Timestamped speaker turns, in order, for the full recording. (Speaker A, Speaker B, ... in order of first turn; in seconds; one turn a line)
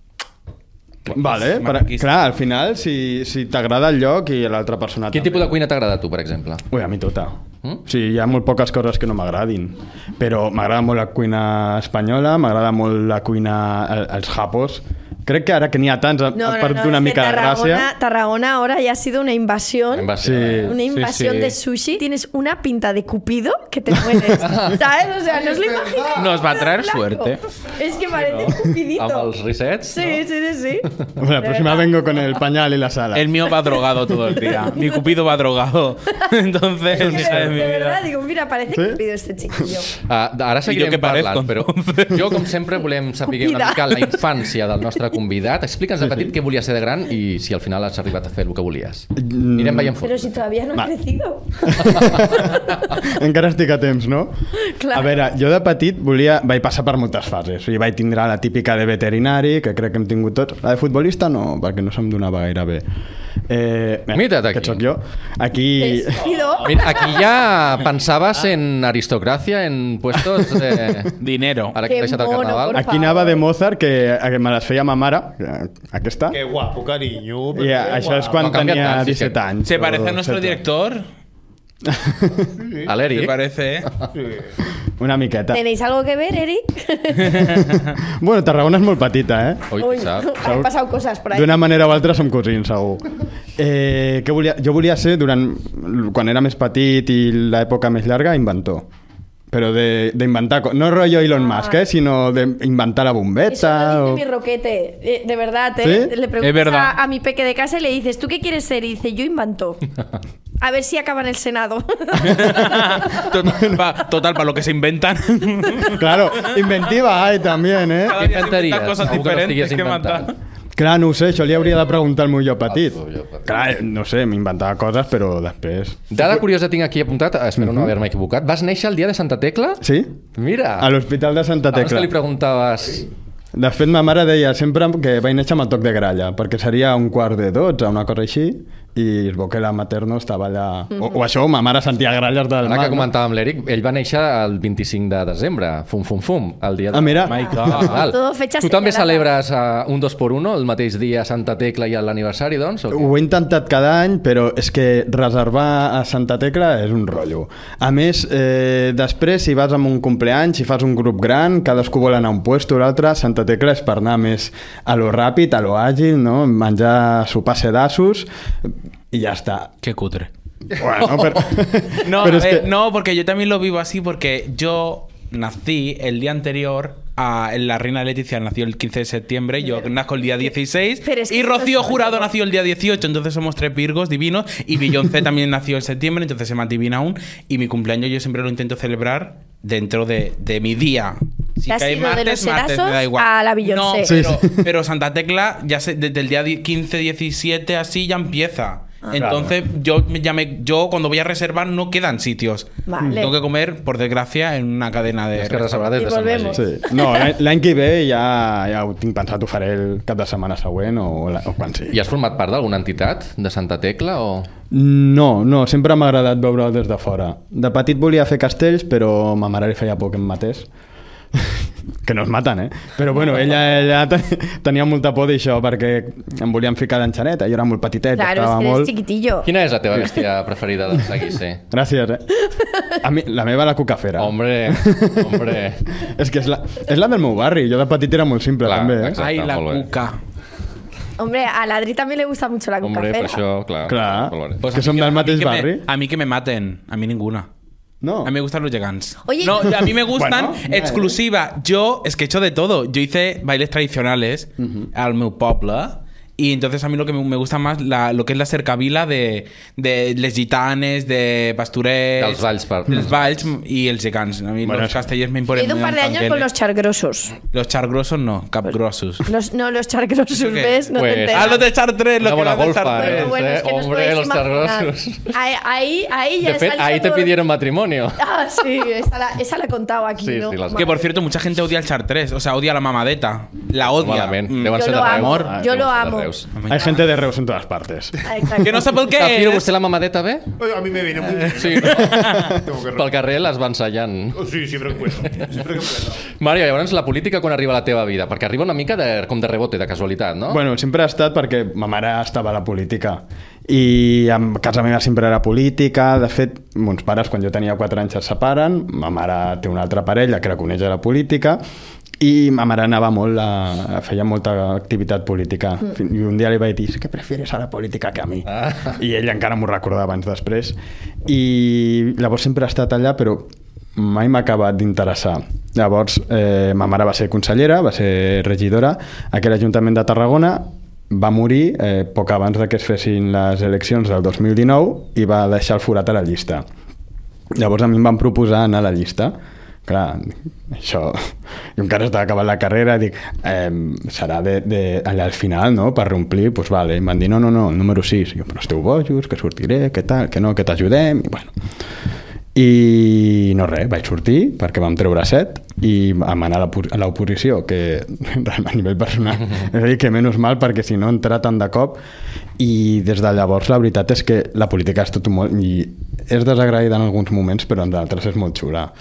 Speaker A: 1.1-2.1
Speaker B: 1.1-5.6
Speaker C: 5.1-6.7
Speaker B: 6.7-17.9
Speaker D: 16.3-20.1
Speaker C: 19.9-20.8
Speaker B: 20.2-20.8
Speaker D: 20.7-29.3
Speaker A: 20.9-21.5
Speaker B: 24.1-24.4
Speaker C: 24.4-24.8
Speaker E: 25.3-26.3
Speaker A: 26.1-27.4
Speaker C: 28.3-30.2
Speaker D: 29.9-30.9
Speaker B: 31.2-33.4
Speaker D: 31.4-31.9
Speaker A: 33.1-38.0
Speaker D: 36.9-39.9
Speaker B: 38.7-39.0
Speaker C: 40.1-50.4
Speaker A: 40.7-42.4
Speaker D: 43.3-44.2
Speaker B: 46.0-46.3
Speaker B: 49.2-49.9
Speaker D: 50.0-52.6
Speaker B: 51.6-54.3
Speaker C: 51.9-52.2
Speaker D: 54.6-55.2
Speaker B: 54.9-62.8
Speaker B: 63.5-66.3
Speaker C: 64.1-64.8
Speaker D: 65.8-67.0
Speaker E: 66.3-67.0
Speaker C: 66.6-71.2
Speaker B: 70.3-71.1
Speaker A: 71.2-71.8
Speaker C: 71.7-72.8
Speaker D: 71.8-73.4
Speaker B: 72.7-76.4
Speaker E: 76.3-78.8
Speaker B: 77.5-80.6
Speaker C: 78.4-79.4
Speaker A: 79.6-81.0
Speaker B: 81.9-82.5
Speaker E: 82.6-82.9
Speaker C: 82.9-83.4
Speaker A: 83.1-83.9
Speaker E: 84.1-84.5
Speaker B: 85.0-85.6
Speaker D: 85.5-87.6
Speaker B: 87.3-89.7
Speaker C: 89.7-90.3
Speaker D: 89.8-91.8
Speaker B: 90.4-90.7
Speaker B: 91.3-93.0
Speaker B: 93.6-98.9
Speaker B: 99.5-104.2
Speaker D: 101.4-101.8
Speaker D: 103.5-109.8
Speaker B: 105.8-106.1
Speaker A: 106.4-107.0
Speaker D: 110.6-112.8
Speaker A: 112.2-116.5
Speaker B: 113.5-113.8
Speaker B: 115.9-118.2
Speaker A: 118.0-120.3
Speaker C: 118.1-120.3
Speaker B: 120.8-126.4
Speaker C: 122.7-123.6
Speaker C: 126.1-129.8
Speaker B: 127.6-127.9
Speaker B: 129.8-130.1
Speaker C: 130.4-130.9
Speaker B: 130.8-132.1
Speaker C: 131.7-133.1
Speaker B: 133.6-143.1
Speaker C: 142.6-153.1
Speaker B: 146.9-147.9
Speaker A: 147.3-148.1
Speaker D: 147.5-149.3
Speaker B: 152.9-169.7
Speaker A: 169.8-170.3
Speaker B: 170.8-172.7
Speaker A: 172.0-206.0
Speaker D: 181.0-182.3
Speaker D: 191.7-194.1
Speaker B: 194.0-194.7
Speaker B: 199.2-199.6
Speaker D: 202.9-203.3
Speaker B: 203.0-203.3
Speaker C: 205.4-206.6
Speaker D: 206.0-207.3
Speaker B: 206.5-212.0
Speaker C: 211.9-214.5
Speaker B: 214.7-220.7
Speaker B: 221.4-228.9
Speaker D: 228.2-229.5
Speaker C: 229.4-231.6
Speaker B: 231.7-232.2
Speaker D: 232.6-232.8
Speaker B: 233.0-239.2
Speaker C: 234.2-235.8
Speaker C: 238.6-239.9
Speaker A: 239.2-240.2
Speaker D: 241.2-243.4
Speaker C: 242.8-244.6
Speaker B: 243.8-245.9
Speaker A: 244.6-247.5
Speaker B: 248.0-248.3
Speaker A: 248.2-266.5
Speaker D: 249.2-249.8
Speaker B: 250.1-251.2
Speaker B: 254.6-254.9
Speaker C: 262.2-263.2
Speaker B: 264.6-265.1
Speaker D: 265.5-267.4
Speaker A: 267.5-269.3
Speaker D: 269.2-271.6
Speaker A: 270.3-273.4
Speaker C: 270.9-275.4
Speaker D: 273.0-277.4
Speaker C: 276.4-278.2
Speaker D: 278.2-281.1
Speaker C: 280.2-280.9
Speaker A: 280.8-285.5
Speaker C: 283.9-286.5
Speaker D: 284.7-286.3
Speaker A: 286.6-287.0
Speaker B: 286.7-288.2
Speaker D: 288.3-288.9
Speaker A: 288.6-289.7
Speaker C: 289.1-290.5
Speaker E: 290.6-293.1
Speaker C: 291.5-294.5
Speaker A: 292.0-292.5
Speaker B: 292.1-292.6
Speaker E: 294.4-296.2
Speaker C: 296.4-300.6
Speaker B: 300.5-311.6
Speaker B: 312.2-336.6
Speaker B: 337.5-339.4
Speaker B: 339.9-341.2
Speaker B: 341.8-351.5
Speaker B: 352.6-362.0
Speaker B: 362.6-368.9